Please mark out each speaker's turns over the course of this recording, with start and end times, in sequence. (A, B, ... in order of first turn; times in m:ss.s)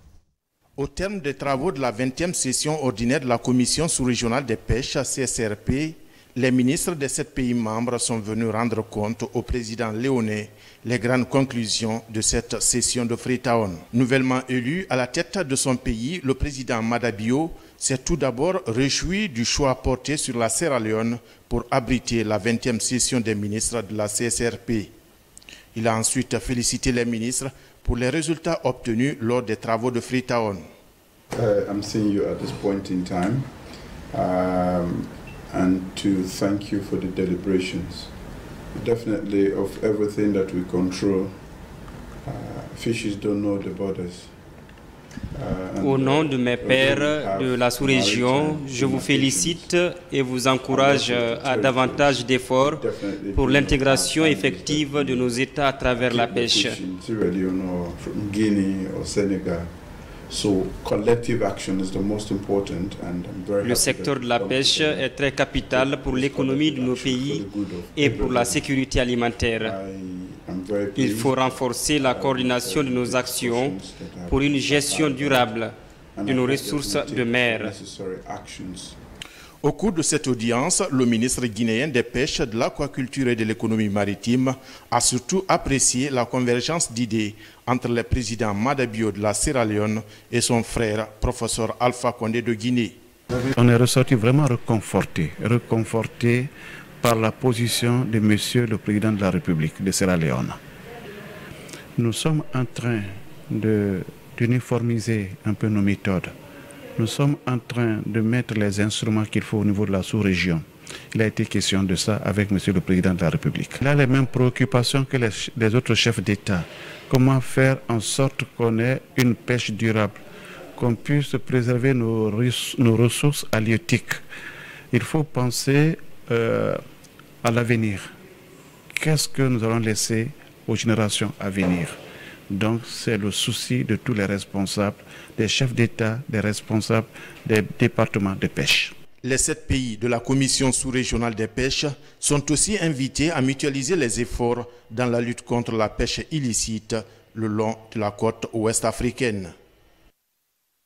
0:00.8-0:24.9 A
0:25.8-0:30.6 A
0:31.3-0:33.5 B
0:34.1-0:38.1 B
0:38.7-0:41.4 B
0:42.2-0:44.4 B
0:45.3-0:49.7 B
0:45.8-0:52.8 C
0:50.7-0:59.7 B
0:53.4-0:56.8 C
1:00.3-1:08.7 B
1:03.6-1:09.8 C
1:09.6-1:15.6 B
1:11.0-1:13.8 C
1:14.3-1:17.8 C
1:16.2-1:19.0 B
1:19.6-1:33.0 A
1:33.5-1:40.6 D
1:42.0-1:46.4 D
1:47.0-2:00.2 D
2:00.8-2:04.2 D
2:04.9-2:06.8 D
2:07.4-2:08.1 D
2:09.0-2:12.0 D
2:12.5-2:19.0 D
2:19.2-2:29.5 A